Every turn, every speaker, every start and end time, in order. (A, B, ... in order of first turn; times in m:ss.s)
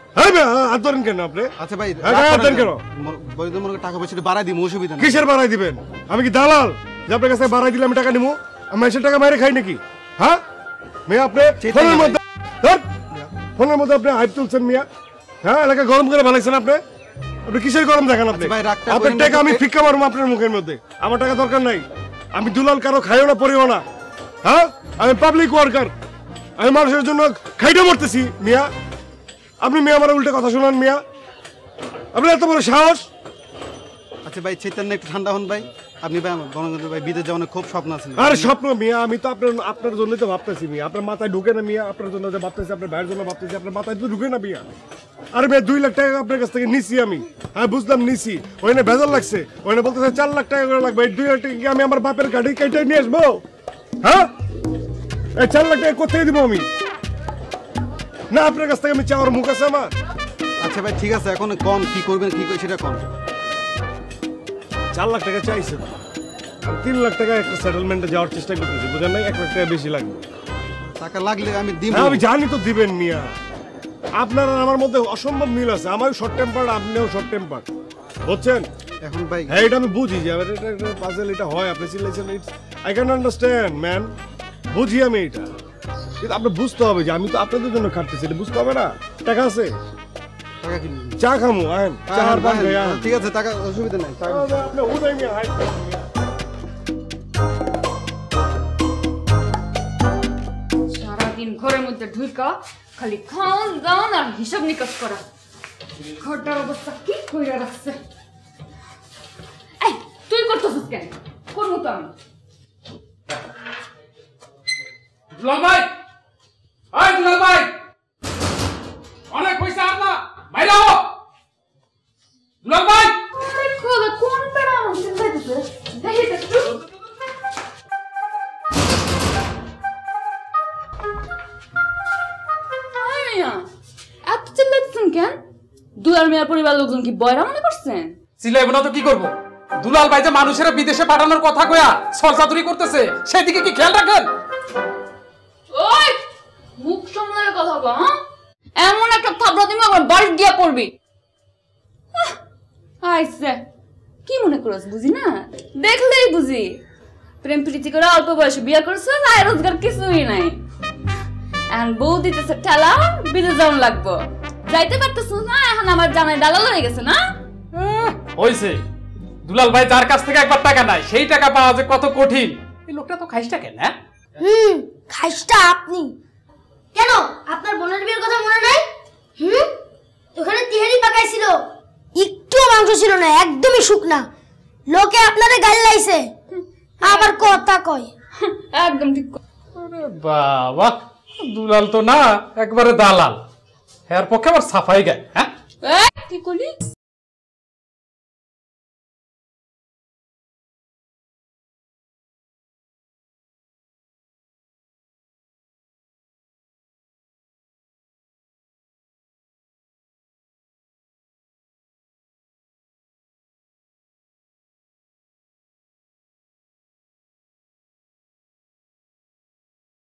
0:00.2-0:02.8 A
0:01.6-0:05.2 B
0:05.0-0:10.4 A
0:11.1-0:12.9 A
0:11.6-0:12.2 B
0:13.4-0:14.9 A
0:15.4-0:16.8 A
0:17.5-0:23.8 A
0:18.3-0:19.6 B
0:24.4-0:25.9 A
0:26.6-0:28.7 A
0:29.6-0:31.0 A
0:32.1-0:33.1 A
0:34.2-0:38.5 B
0:38.2-0:44.7 A
0:45.3-0:53.4 A
0:54.0-0:54.3 A
0:55.4-0:56.7 A
0:58.3-1:00.0 A
1:00.6-1:03.1 B
1:04.9-1:06.0 A
1:06.7-1:10.2 A
1:11.0-1:12.2 B
1:11.9-1:13.4 A
1:14.2-1:17.7 A
1:18.3-1:18.7 A
1:19.0-1:19.6 B
1:19.5-1:24.1 A
1:24.7-1:25.5 A
1:26.2-1:29.8 A
1:30.6-1:31.2 B
1:31.2-1:33.2 A
1:32.1-1:34.6 B
1:34.3-1:36.0 A
1:40.9-1:45.2 C
1:46.2-1:48.0 C
1:49.8-1:52.1 C
1:55.4-1:55.9 D
1:56.9-1:57.7 D
1:59.3-2:01.0 D
2:02.6-2:03.2 D
2:03.4-2:06.8 C
2:13.0-2:13.7 C
2:14.3-2:15.4 C
2:16.0-2:18.2 C
2:18.4-2:19.3 D
2:19.8-2:24.3 D
2:25.7-2:26.2 C
2:26.8-2:28.2 C
2:28.8-2:30.9 C
2:33.0-2:33.6 C
2:34.3-2:36.8 C
2:37.4-2:40.6 C
2:41.7-2:47.2 C
2:47.7-2:48.8 D
2:49.5-2:53.9 D
2:54.4-2:56.1 E
2:57.0-2:58.8 E
2:59.4-2:59.7 E
3:00.4-3:01.6 E
3:02.2-3:04.3 E
3:04.9-3:06.3 E
3:07.0-3:08.1 E
3:07.0-3:07.5 C
3:08.4-3:09.4 C
3:09.8-3:13.4 D
3:14.1-3:15.5 D
3:15.8-3:16.8 C